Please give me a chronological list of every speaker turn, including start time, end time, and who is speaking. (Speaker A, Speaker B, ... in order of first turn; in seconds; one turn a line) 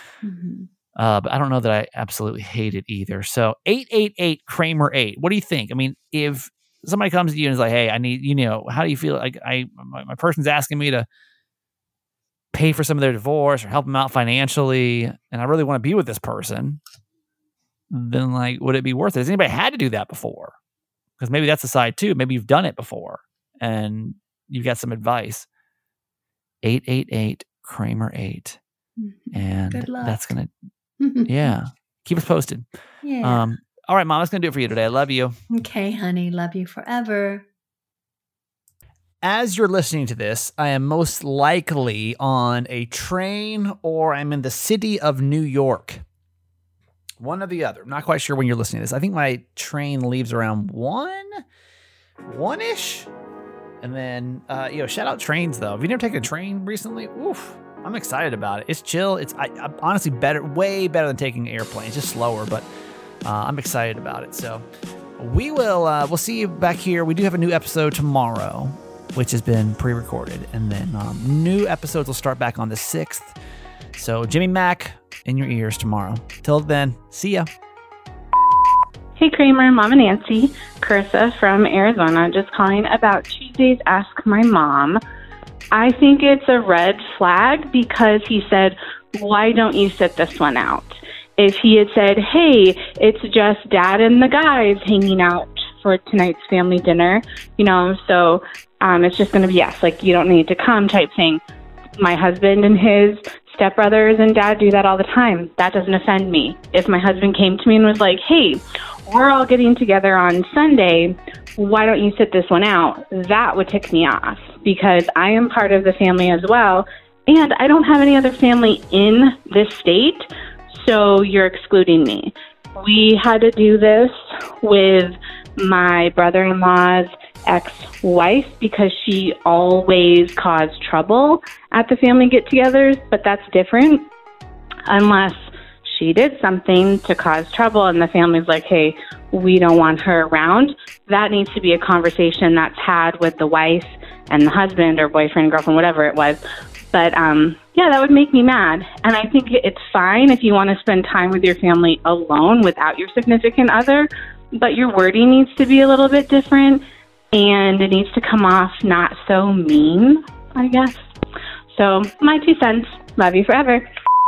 Speaker A: 0.2-0.7
Speaker B: 1.0-11.1
Speaker B: 12.5-16.8
Speaker B: 17.9-20.6
Speaker B: 21.2-25.5
Speaker B: 26.6-28.6
Speaker A: 29.0-30.3
Speaker B: 29.3-30.5
Speaker A: 31.0-31.5
Speaker B: 31.3-32.7
Speaker A: 33.0-33.5
Speaker B: 33.2-35.4
Speaker A: 35.5-37.5
Speaker B: 39.2-46.0
Speaker B: 47.2-51.4
Speaker B: 52.3-53.1
Speaker B: 53.8-62.7
Speaker B: 63.2-64.7
Speaker B: 65.2-73.3
Speaker B: 74.0-77.5
Speaker C: 79.2-85.0
Speaker C: 85.7-101.4
Speaker C: 102.0-134.1
Speaker C: 134.9-146.4
Speaker C: 146.9-156.8
Speaker C: 157.3-161.0
Speaker C: 161.7-163.9